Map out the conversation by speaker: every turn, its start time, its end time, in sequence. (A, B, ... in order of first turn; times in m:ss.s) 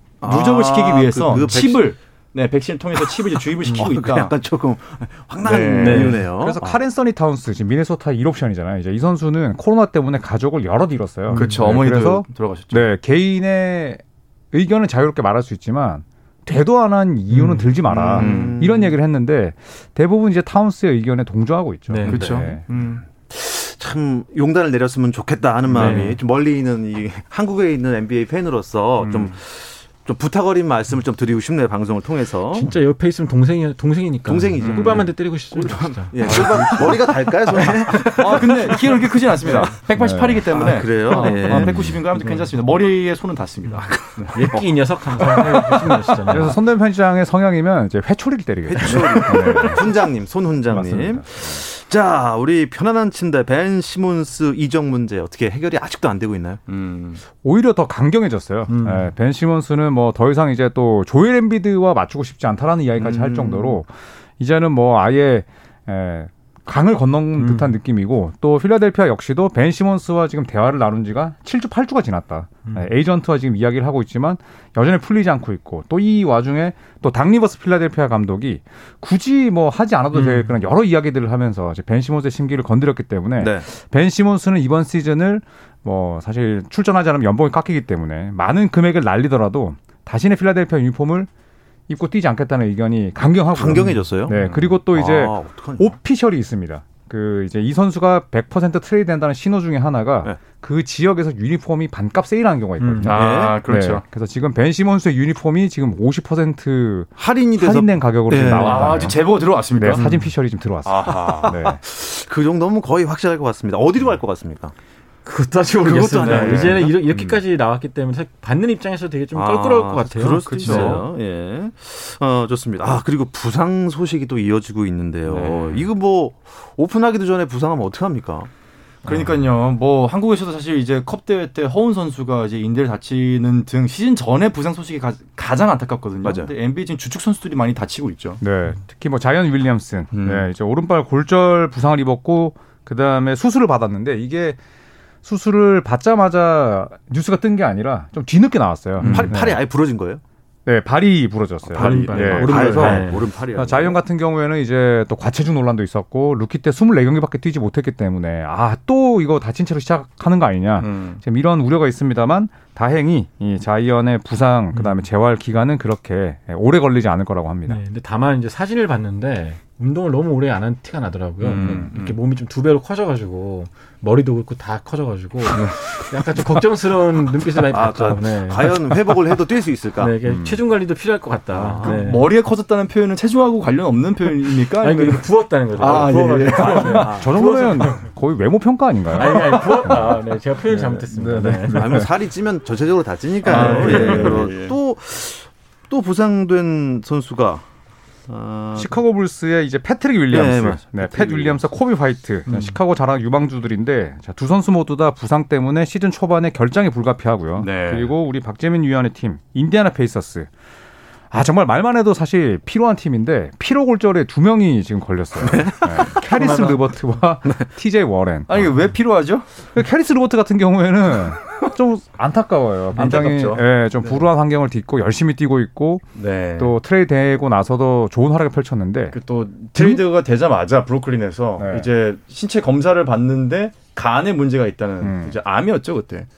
0:00.2-0:01.9 A
0:00.2-0:04.3 B
0:03.0-0:06.8 A
0:05.4-0:06.2 B
0:05.8-0:06.2 C
0:06.3-0:22.6 D
0:11.3-0:11.7 C
0:11.3-0:12.9 B
0:17.3-0:17.7 C
0:17.9-0:18.6 B
0:18.0-0:19.0 A
0:21.9-0:22.2 C
0:22.1-0:23.0 B
0:22.1-0:32.7 A
0:25.7-0:26.1 B
0:25.7-0:26.2 C
0:29.0-0:29.3 B
0:32.5-0:38.2 C
0:34.2-0:39.7 A
0:34.6-0:35.1 B
0:36.2-0:36.8 B
0:38.2-0:44.6 B
0:39.9-0:40.5 D
0:40.5-0:41.9 A
0:41.1-0:41.6 C
0:41.5-0:42.0 D
0:42.2-0:42.5 C
0:43.9-0:44.6 A
0:44.3-0:46.6 C
0:45.5-0:45.8 A
0:46.3-0:49.9 D
0:48.7-0:56.6 A
0:50.7-0:51.6 D
0:56.7-0:57.2 B
0:57.4-1:31.3 D
0:58.7-0:59.0 C
1:03.0-1:03.8 A
1:07.4-1:07.7 C
1:20.1-1:20.5 C
1:23.4-1:23.6 A
1:31.9-1:49.2 D
1:33.5-1:35.9 A
1:33.7-1:34.0 C
1:42.8-1:43.1 C
1:43.0-1:44.0 B
1:43.0-1:43.6 A
1:47.2-1:49.1 A
1:48.5-1:50.1 B
1:49.7-1:51.8 D
1:50.8-1:51.5 B
1:51.0-1:54.7 A
1:55.2-2:01.0 C
1:55.8-1:57.0 A
1:56.2-1:56.8 B
1:57.1-1:57.4 D
1:59.3-2:08.5 A
2:00.4-2:01.0 B
2:05.2-2:05.9 B
2:09.0-2:18.4 B
2:09.0-2:09.4 D
2:16.2-2:16.5 A
2:18.4-2:24.6 D
2:20.1-2:20.4 B
2:25.2-2:29.6 D
2:29.0-2:29.4 B
2:29.0-2:30.2 A
2:30.6-2:47.8 D
2:31.7-2:33.0 B
2:31.8-2:34.0 A
2:32.3-2:33.2 C
2:40.8-2:41.2 B
2:44.7-2:45.0 C
2:47.7-2:59.1 C
2:51.4-2:52.1 B
2:51.6-2:51.9 D
2:57.7-3:00.1 A
3:00.0-3:02.3 C
3:00.2-3:00.6 D
3:01.5-3:02.0 A
3:01.8-3:07.2 B
3:04.8-3:08.1 C
3:05.8-3:07.7 A
3:07.0-3:10.0 D
3:09.1-3:12.0 C
3:11.1-3:12.1 D
3:11.3-3:17.6 A
3:13.4-3:14.8 B
3:13.4-3:14.4 C
3:18.3-3:19.0 A
3:18.7-3:30.5 D
3:20.3-3:21.6 A
3:22.4-3:22.7 B
3:27.6-3:28.1 B
3:31.3-3:38.7 D
3:35.4-3:36.6 A
3:36.3-3:36.7 B
3:38.5-3:39.5 B
3:39.7-3:46.0 D
3:42.9-3:44.2 B
3:46.2-3:46.8 B
3:46.6-3:49.2 D
3:49.1-3:56.3 B
3:49.7-3:50.0 D
3:51.6-3:51.9 D
3:55.0-3:55.4 D